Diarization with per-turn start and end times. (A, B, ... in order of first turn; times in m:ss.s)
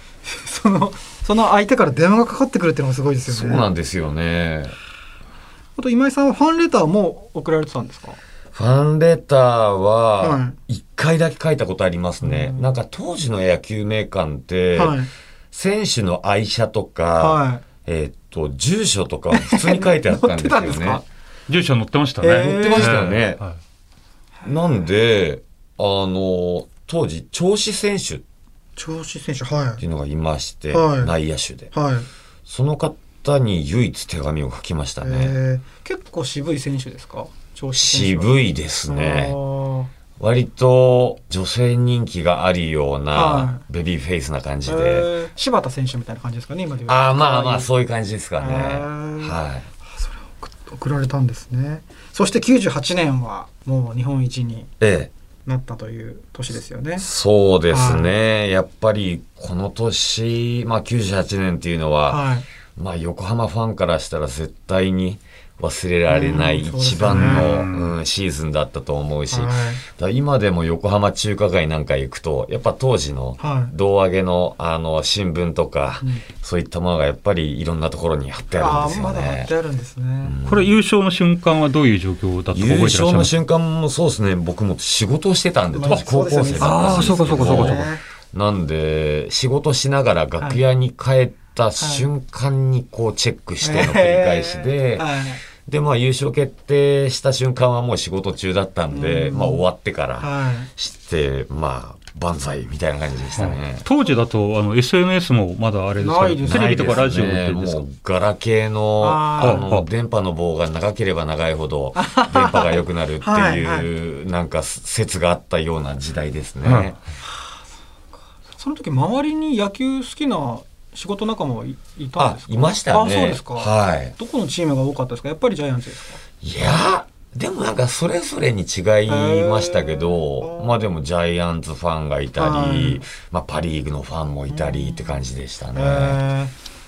0:00.2-0:03.7 A
0:03.2-0:04.8 B
0:05.8-0:08.2 A
0:08.5-0:15.0 B
0:10.2-0:10.6 A
0:12.2-0:12.7 A
0:14.8-0:15.1 A
0:15.5-0:21.0 B
0:17.2-0:17.6 A
0:19.3-0:21.0 A
0:21.5-0:23.6 C
0:22.2-0:23.1 A
0:22.4-0:23.4 B
0:24.4-0:24.8 A
0:24.4-0:28.2 B
0:28.8-0:29.8 A
0:29.8-0:31.7 B
0:30.7-0:31.1 A
0:31.7-0:32.1 A
0:32.5-0:35.4 B
0:35.0-0:39.9 A
0:37.8-0:39.4 B
0:40.2-0:45.1 B
0:43.1-0:43.6 A
0:44.7-0:47.7 A
0:46.9-0:49.7 B
0:48.4-0:54.7 A
0:54.8-0:55.1 B
0:55.5-0:57.1 A
0:57.0-1:02.2 B
0:57.7-0:58.1 A
1:02.1-1:02.4 A
1:02.8-1:19.5 B
1:06.1-1:07.7 A
1:07.1-1:08.0 C
1:09.3-1:09.8 A
1:13.4-1:13.7 A
1:18.5-1:20.4 A
1:20.2-1:20.7 B
1:20.4-1:23.3 C
1:22.5-1:43.9 B
1:25.7-1:28.0 A
1:26.6-1:27.8 C
1:31.8-1:32.1 A
1:33.6-1:35.4 A
1:38.9-1:39.6 A
1:40.2-1:40.7 A
1:43.4-1:47.8 C
1:46.0-1:47.1 A
1:46.5-1:57.0 B
1:49.0-1:49.7 A
1:49.4-1:49.9 C
1:52.0-1:53.9 A
1:56.6-1:56.9 C
1:58.6-2:06.2 A
2:02.2-2:04.2 B
2:06.4-2:16.2 B
2:09.1-2:10.9 A
2:12.4-2:13.0 A
2:14.5-2:15.2 A
2:15.7-2:16.5 A